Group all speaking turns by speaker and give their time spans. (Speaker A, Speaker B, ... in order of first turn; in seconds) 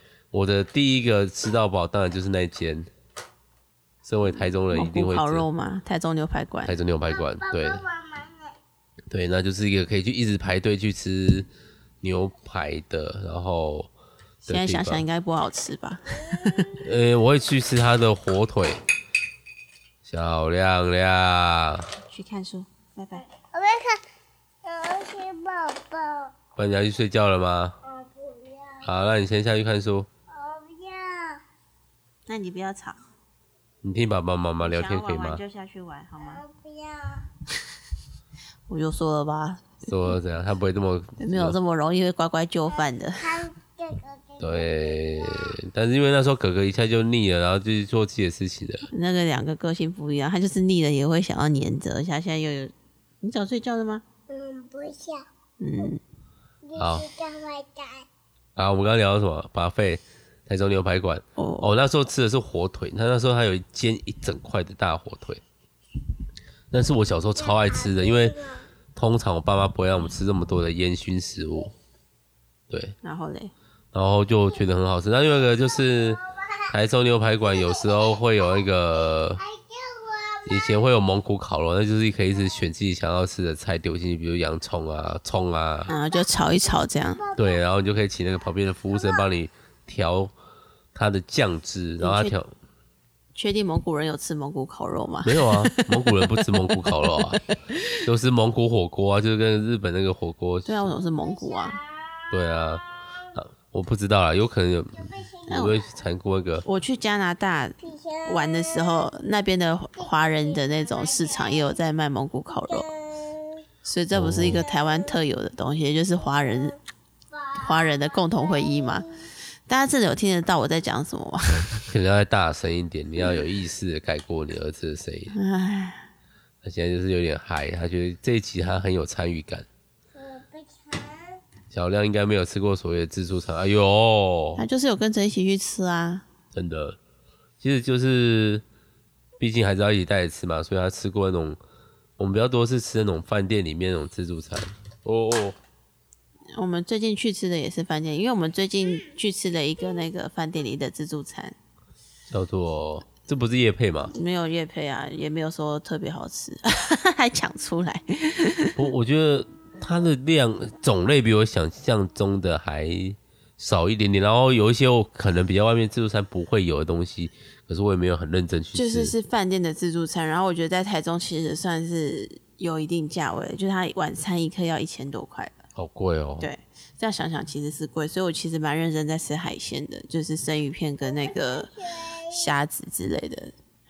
Speaker A: 0.3-2.9, 4.0-5.5, 6.6-7.8, 9.1-11.5, 12.0-13.9, 14.5-15.0, 16.7-18.8, 20.0-21.9, 26.6-27.8, 28.8-30.1, 33.8-35.4, 39.8-41.6, 44.4-48.9, 56.8-57.1, 58.5-65.4, 66.7-71.7, 72.7-73.0, 73.9-79.4, 80.5-85.9, 87.3-90.3, 90.9-92.5, 95.2-97.5, 98.0-100.9, 102.3-106.6, 114.1-114.6, 121.8-125.3, 126.6-129.7, 131.7-134.6, 136.5-137.0, 137.6-138.6, 139.4-141.6, 142.2-145.6, 152.3-154.1, 158.8-169.1, 175.8-176.5
Speaker B: 4.6-6.8, 14.4-16.7, 22.1-23.2, 32.3-33.0, 34.6-36.4, 38.7-39.8, 41.2-43.5, 48.9-54.0, 55.6-56.0, 61.4-61.7, 73.0-73.5, 85.9-87.2, 92.0-92.3, 93.3-97.8, 100.7-101.8, 105.5-105.8, 106.6-112.9, 113.8-116.8, 117.6-119.1, 119.7-121.7, 125.3-126.1, 134.6-136.2, 146.5-151.6, 154.1-158.8, 168.7-175.6, 176.4-183.5
Speaker C: 7.1-8.5, 23.3-24.0, 24.6-26.3, 27.8-28.8, 30.3-31.4, 36.2-37.3, 43.2-45.0, 54.3-55.2, 56.6-58.0, 67.6-68.6, 79.5-80.5, 105.2-105.7, 107.8-109.0, 112.8-113.6, 130.1-131.4